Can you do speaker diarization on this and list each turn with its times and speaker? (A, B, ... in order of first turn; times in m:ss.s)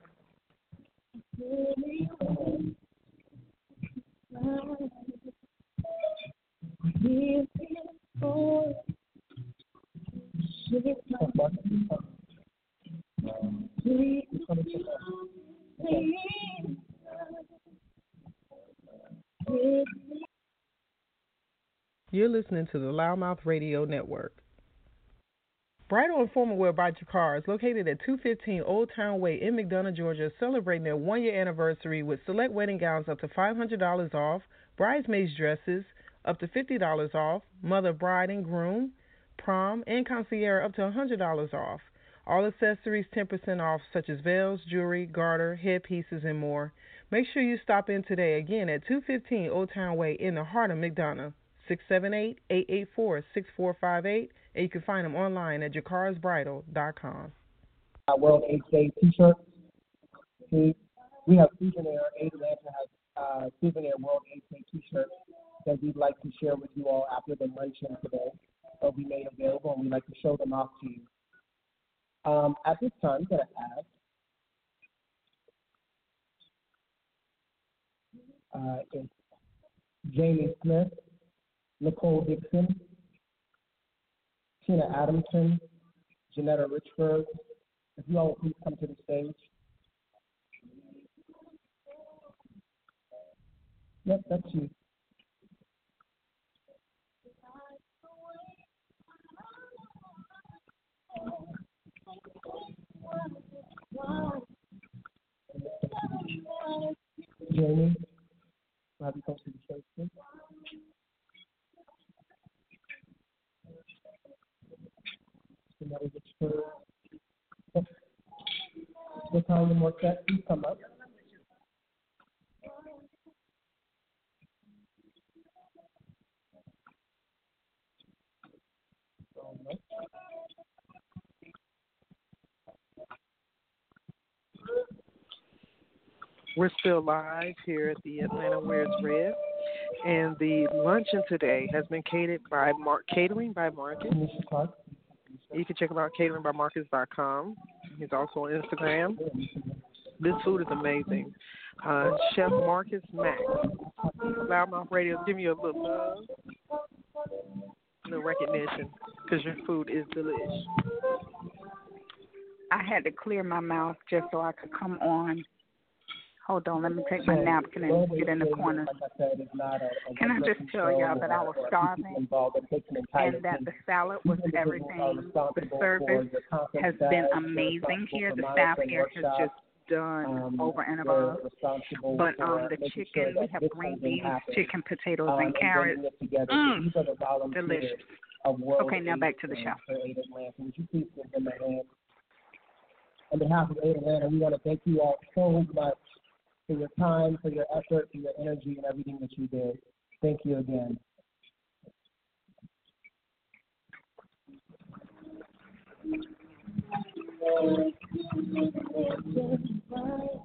0:11.1-0:12.0 A
0:14.3-0:15.1 A
0:15.8-0:16.1 A
0:22.1-0:24.4 B
0:25.9-0:57.3 B
0:58.1-0:59.4 A
1:00.5-1:05.1 A
1:05.6-1:11.1 A
1:12.2-1:13.9 A
1:18.5-1:19.1 A
1:20.0-1:21.0 A
1:21.8-1:22.8 A
1:24.6-1:25.6 A
1:26.3-1:27.3 A
1:28.0-1:29.5 A
1:34.0-1:34.7 A
1:45.5-1:46.4 A
1:47.4-1:48.0 A
1:49.0-1:50.1 A
1:55.8-1:56.8 A
1:59.2-2:00.8 A
2:09.4-2:09.8 A
2:16.6-2:19.4 C
2:20.0-2:24.2 C
2:24.1-2:25.6 A
2:25.5-2:29.2 C
2:29.2-2:29.8 A
2:30.2-2:33.6 C
2:33.9-2:34.3 A
2:34.3-2:36.3 C
2:38.0-2:40.7 C
2:42.7-2:45.4 D
2:46.4-2:49.0 D
2:47.2-2:59.6 A
2:50.2-2:52.2 D
2:53.2-3:01.4 D
3:00.2-3:04.7 A
3:02.1-3:06.9 D
3:05.3-3:11.9 A
3:07.5-3:08.0 D
3:08.8-3:09.8 D
3:13.3-3:16.0 A
3:16.7-3:21.0 A
3:28.7-3:30.0 A